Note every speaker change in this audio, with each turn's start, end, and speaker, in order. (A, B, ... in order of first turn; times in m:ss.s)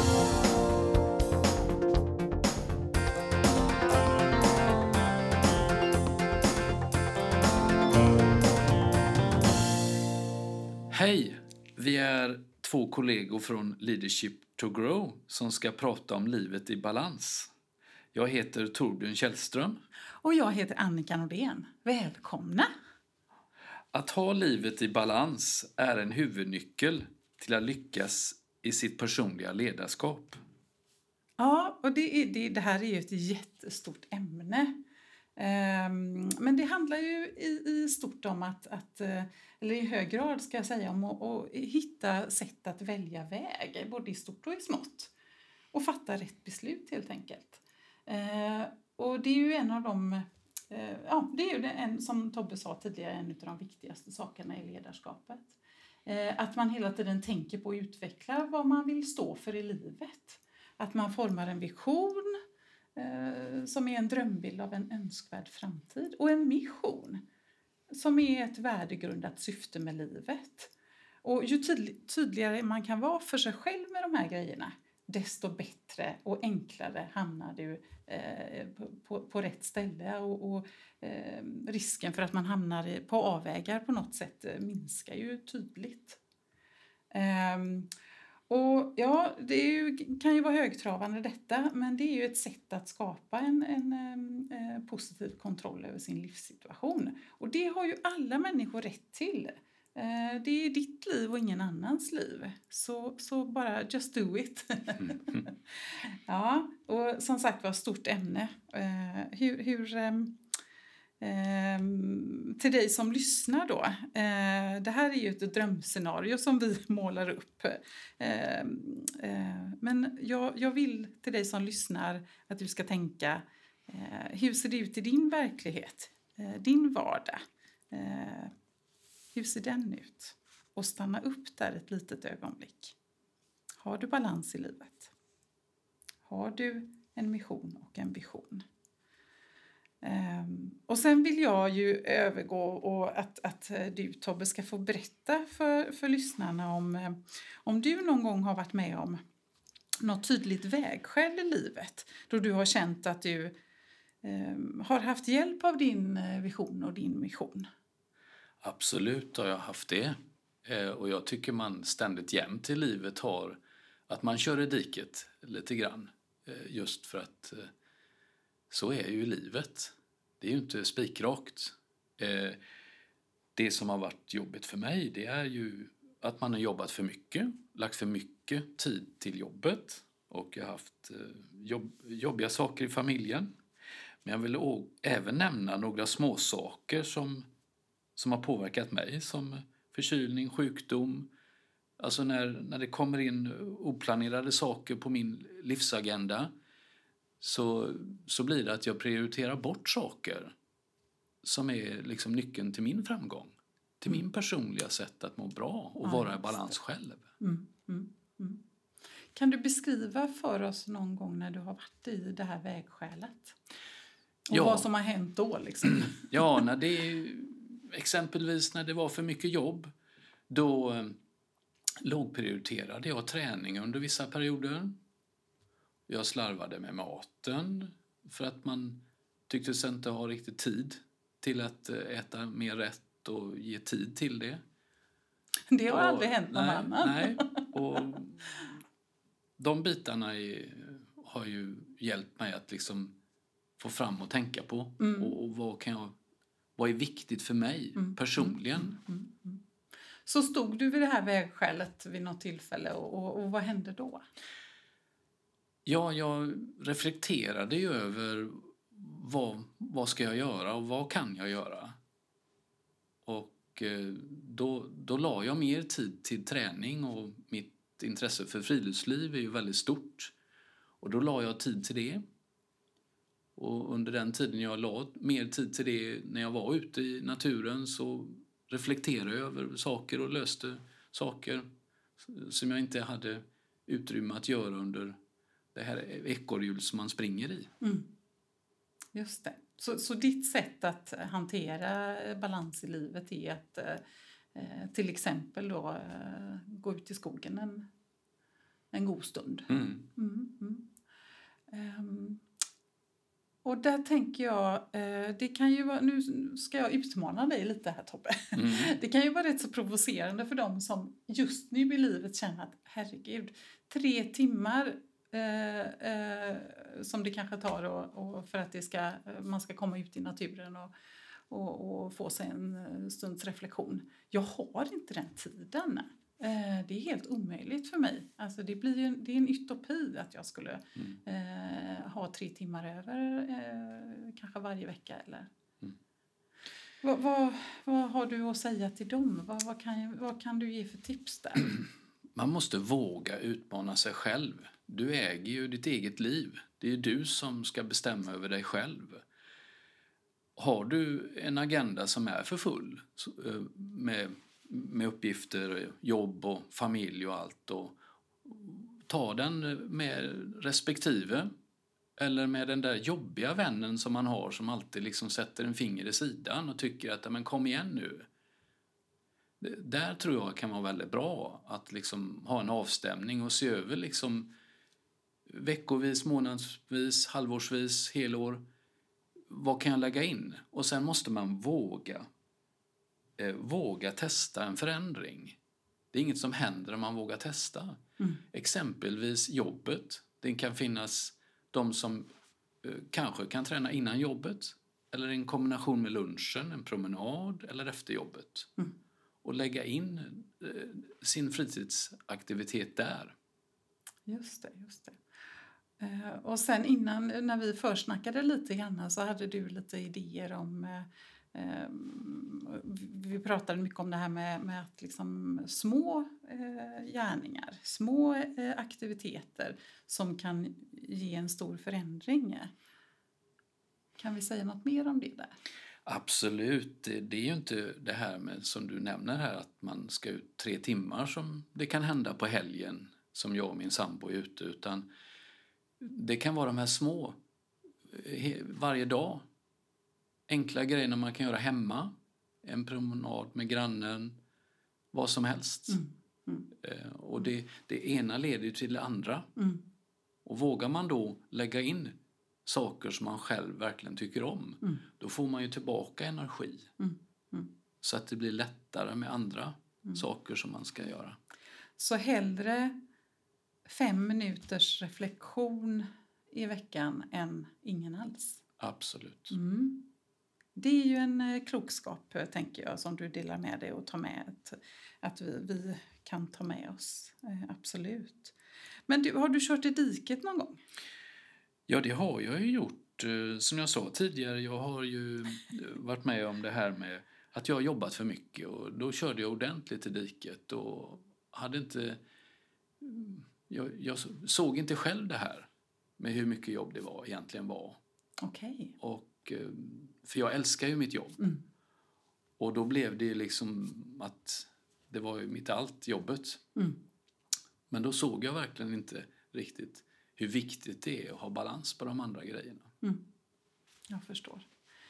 0:10.9-0:17.5 A
0:18.1-0:19.8 A
0:20.2-0:22.7 B
0:23.9-0:30.4 A
0:31.4-0:34.8 B
0:35.4-0:45.1 B
0:45.7-1:02.4 B
1:03.0-1:07.2 B
1:07.9-1:10.7 B
1:11.2-1:26.2 B
1:27.1-1:27.9 B
1:28.5-1:50.4 B
1:51.2-2:07.4 B
2:07.9-2:08.5 B
2:09.3-2:13.0 B
2:13.8-2:15.1 B
2:16.2-2:18.6 B
2:20.0-2:29.2 B
2:30.0-2:33.5 B
2:34.2-2:37.6 B
2:38.6-2:47.7 A
2:48.7-2:52.6 A
2:53.6-3:03.5 A
3:04.2-3:07.4 A
3:08.2-3:11.3 A
3:12.0-3:16.5 A
3:17.4-3:20.5 A
3:21.4-3:27.3 A
3:26.0-3:26.7 B
3:27.4-3:28.6 B
3:29.3-3:33.6 B
3:34.5-3:36.6 B
3:34.5-3:34.9 A
3:35.9-3:39.9 A
3:40.5-3:41.2 A
3:42.0-3:45.0 A
3:46.1-3:54.6 A
3:55.7-3:57.7 B
3:55.9-3:58.8 A
3:59.6-4:03.1 A
4:03.8-4:06.1 A
4:05.0-4:05.4 B
4:06.8-4:08.9 A
4:08.0-4:09.6 B
4:10.2-4:14.2 B
4:15.8-4:21.9 A
4:23.2-4:30.3 A
4:31.0-4:32.2 A
4:33.6-4:41.6 A
4:42.2-4:45.2 A
4:45.7-4:47.7 A
4:47.8-4:48.1 B
4:49.1-4:54.0 B
4:54.5-4:57.9 B
4:58.9-5:00.9 B
4:59.7-5:00.1 A
5:01.7-5:02.4 B
5:03.6-5:20.9 B
5:08.6-5:08.9 A
5:21.5-5:35.5 B
5:37.0-5:41.8 B
5:42.3-5:49.2 A
5:50.6-6:01.5 A
6:02.2-6:08.3 A
6:09.6-6:14.5 A
6:15.5-6:18.6 A
6:19.5-6:22.3 A
6:23.4-6:25.6 A
6:26.1-6:28.0 A
6:28.5-6:32.3 A
6:32.8-6:38.7 A
6:39.4-6:43.3 A
6:44.3-6:45.2 B
6:46.0-7:02.7 B
7:04.2-7:05.5 B
7:06.0-7:15.1 A
7:16.0-7:17.4 A
7:18.1-7:19.4 A
7:20.5-7:24.4 A
7:25.1-7:26.0 A
7:25.9-7:26.7 B
7:26.8-7:29.5 A
7:29.6-7:29.8 B
7:30.4-7:36.9 A
7:37.0-7:37.7 B
7:38.0-7:41.4 A
7:42.0-7:42.9 B
7:43.8-7:48.6 B
7:48.8-7:49.6 A
7:49.5-7:50.1 B
7:50.8-7:58.5 B
7:59.1-8:00.8 B
8:01.9-8:12.2 A
8:13.0-8:18.0 A
8:18.4-8:18.9 B
8:19.0-8:21.4 A
8:22.6-8:26.6 A
8:27.9-8:32.9 A
8:34.1-8:34.6 B